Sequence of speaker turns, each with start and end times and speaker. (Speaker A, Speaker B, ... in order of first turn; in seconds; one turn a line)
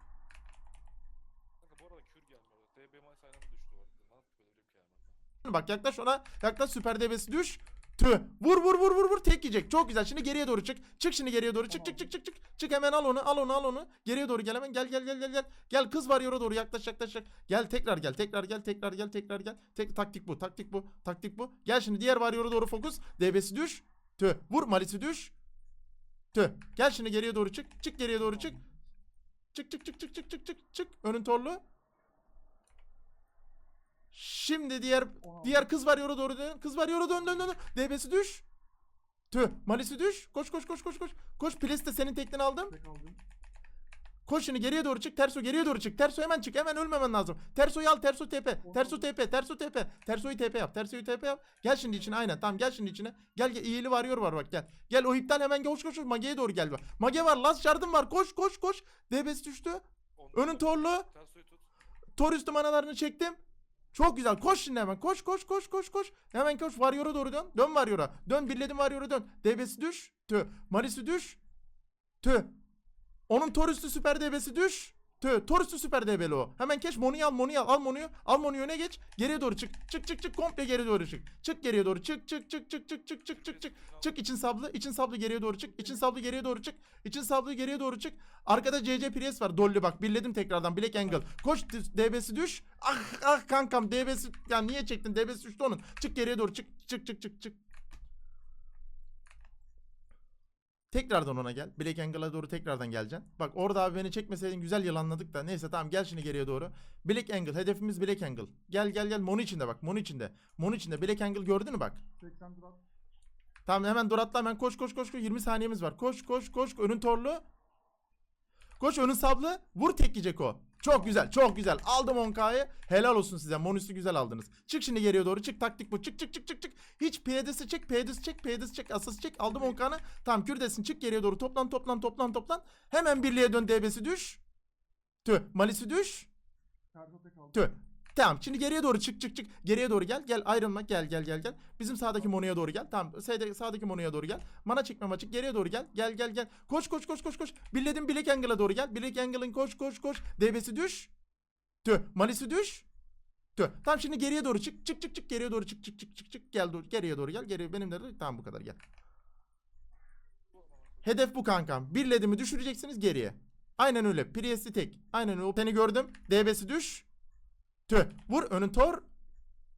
Speaker A: 1.6-5.2
Speaker B: 5.4-25.3
Speaker C: 11.7-12.1
Speaker B: 26.3-28.6
Speaker C: 28.2-28.7
Speaker B: 29.5-31.6
Speaker B: 34.1-38.4
Speaker C: 35.2-35.7
Speaker B: 39.3-42.7
Speaker C: 42.7-43.2
Speaker B: 44.2-61.1
Speaker C: 48.6-49.0
Speaker A: 51.9-52.2
Speaker A: 60.2-61.6
Speaker B: 62.2-63.4
Speaker B: 63.9-71.4
Speaker B: 72.2-72.5
Speaker B: 73.3-97.6
Speaker A: 83.3-84.2
Speaker C: 85.8-86.1
Speaker B: 100.9-112.0
Speaker C: 112.2-112.8
Speaker B: 113.7-117.4
Speaker B: 118.8-134.4
Speaker C: 120.9-121.2
Speaker C: 129.5-129.8
Speaker B: 135.2-136.3
Speaker C: 136.9-137.7
Speaker B: 137.5-151.1
Speaker B: 151.8-152.9
Speaker B: 153.6-158.8
Speaker A: 160.5-161.2
Speaker B: 161.0-167.1
Speaker B: 167.9-169.0